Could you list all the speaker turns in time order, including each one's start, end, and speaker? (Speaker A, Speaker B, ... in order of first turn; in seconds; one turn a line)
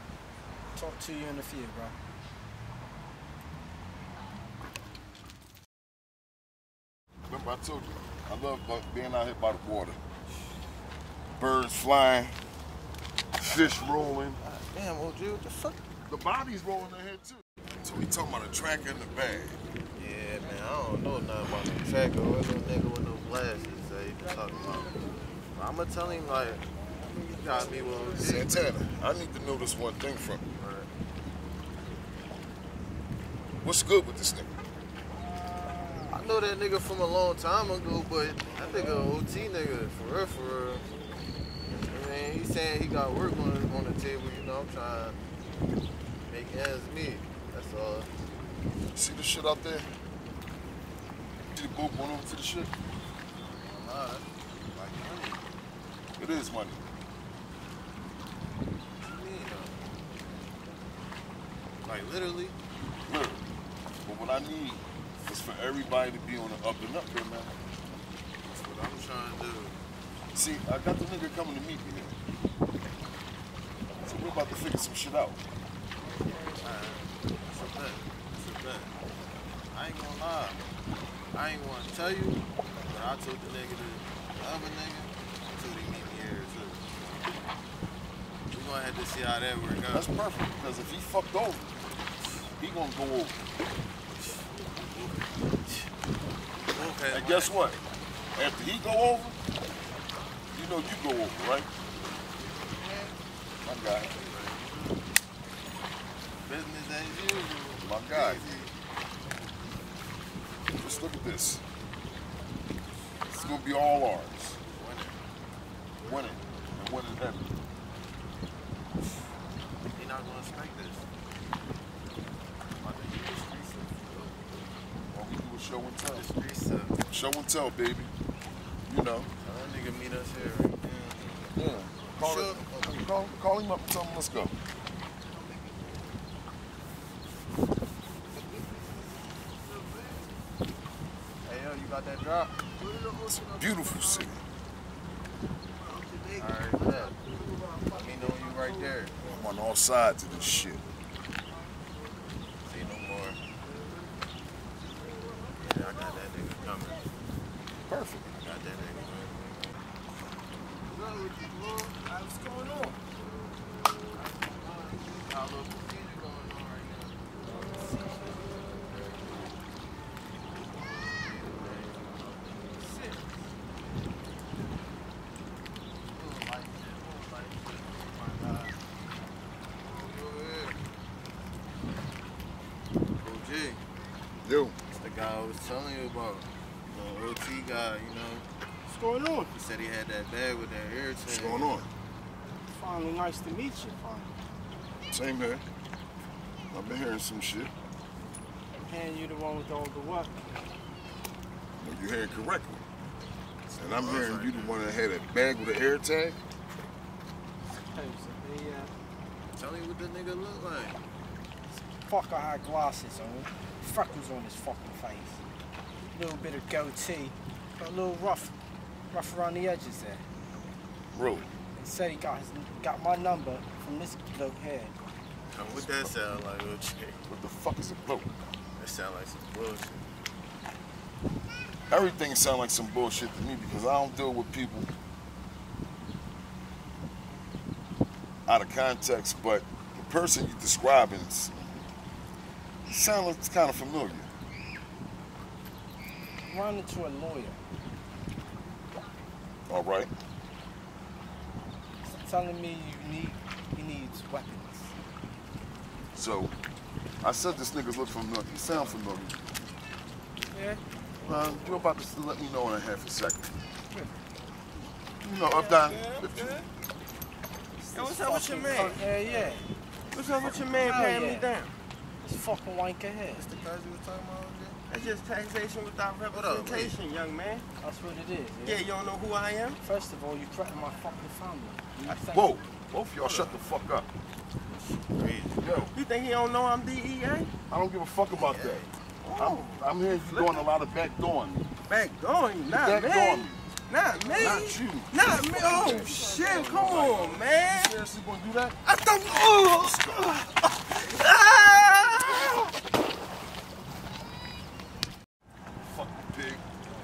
Speaker A: 0.7-1.9
Speaker B: 7.3-10.0
Speaker B: 11.4-12.4
Speaker B: 13.4-14.4
Speaker C: 13.4-15.8
Speaker B: 16.1-19.6
Speaker C: 19.9-26.6
Speaker C: 27.2-28.7
Speaker B: 28.1-30.4
Speaker C: 30.5-30.9
Speaker B: 33.6-34.5
Speaker C: 36.1-40.8
Speaker C: 41.6-45.2
Speaker C: 46.3-48.1
Speaker B: 48.9-49.9
Speaker B: 51.5-52.7
Speaker C: 53.5-55.5
Speaker B: 56.2-56.8
Speaker C: 59.0-59.9
Speaker C: 61.8-62.6
Speaker B: 63.0-63.4
Speaker B: 64.0-67.5
Speaker C: 68.5-69.8
Speaker B: 70.3-72.1
Speaker B: 74.0-75.4
Speaker C: 76.4-78.9
Speaker C: 79.7-80.6
Speaker C: 81.3-87.5
Speaker C: 88.5-90.1
Speaker B: 89.9-91.7
Speaker B: 92.6-93.4
Speaker C: 94.1-95.9
Speaker C: 96.6-97.6
Speaker B: 97.1-97.8
Speaker B: 98.3-99.4
Speaker B: 100.5-101.7
Speaker C: 102.6-103.2
Speaker B: 103.6-104.2
Speaker C: 104.0-105.0
Speaker C: 106.4-108.8
Speaker B: 107.8-108.5
Speaker B: 110.7-111.6
Speaker C: 113.3-113.6
Speaker B: 113.3-114.6
Speaker C: 114.7-115.2
Speaker C: 116.0-116.4
Speaker B: 116.0-117.5
Speaker C: 119.9-121.1
Speaker C: 122.8-124.5
Speaker B: 125.1-126.2
Speaker C: 126.1-127.0
Speaker B: 127.1-128.1
Speaker B: 128.9-129.3
Speaker C: 129.4-131.5
Speaker B: 131.5-134.5
Speaker C: 132.1-133.0
Speaker C: 141.4-144.2
Speaker B: 143.2-144.4
Speaker C: 146.3-147.2
Speaker C: 147.9-149.2
Speaker B: 149.2-150.8
Speaker C: 152.6-153.4
Speaker C: 155.6-157.0
Speaker B: 157.8-158.3
Speaker C: 158.4-159.8
Speaker C: 160.8-161.9
Speaker A: 162.1-162.9
Speaker C: 164.1-169.5
Speaker C: 170.6-173.1
Speaker D: 172.9-173.1
Speaker C: 176.1-178.8
Speaker C: 179.8-180.8
Speaker C: 183.2-183.8
Speaker B: 184.4-184.8
Speaker C: 184.9-188.5
Speaker A: 188.9-189.5
Speaker C: 189.5-191.7
Speaker B: 191.3-191.9
Speaker A: 192.7-194.3
Speaker B: 195.1-195.6
Speaker B: 196.7-197.7
Speaker A: 198.7-200.4
Speaker B: 201.8-202.8
Speaker C: 203.7-204.7
Speaker B: 203.8-206.4
Speaker A: 207.7-208.9
Speaker C: 209.5-211.0
Speaker A: 211.7-215.4
Speaker A: 216.1-218.5
Speaker A: 219.1-220.2
Speaker B: 221.1-221.5
Speaker A: 221.8-224.9
Speaker C: 225.5-227.2
Speaker B: 225.7-226.1
Speaker B: 227.3-228.6
Speaker C: 228.8-230.1
Speaker B: 231.9-234.9
Speaker B: 238.5-241.8
Speaker B: 242.8-244.3
Speaker A: 246.4-247.6
Speaker B: 249.7-250.1
Speaker A: 252.0-254.9
Speaker B: 256.1-256.5
Speaker B: 257.2-259.4
Speaker A: 260.5-260.8
Speaker B: 261.2-263.5
Speaker A: 263.9-264.2
Speaker B: 265.2-266.6
Speaker D: 265.5-266.6
Speaker A: 267.8-269.7
Speaker D: 267.9-269.1
Speaker D: 270.1-271.7
Speaker B: 270.4-270.8
Speaker A: 270.8-271.5
Speaker A: 272.2-273.4
Speaker C: 273.4-274.8
Speaker D: 274.9-277.6
Speaker C: 276.3-276.9
Speaker A: 277.8-278.8
Speaker D: 278.6-279.8
Speaker A: 279.8-282.5
Speaker B: 282.3-284.1
Speaker C: 283.2-283.6
Speaker C: 284.6-285.6
Speaker B: 285.6-285.9
Speaker D: 285.9-287.5
Speaker B: 287.7-288.9
Speaker C: 288.3-288.9
Speaker D: 289.2-290.6
Speaker B: 289.4-291.6
Speaker D: 291.9-297.9
Speaker B: 292.7-293.6
Speaker C: 294.1-294.7
Speaker B: 294.3-298.8
Speaker C: 295.7-297.2
Speaker D: 298.9-300.5
Speaker B: 299.7-300.4
Speaker D: 301.0-302.5
Speaker B: 305.8-306.6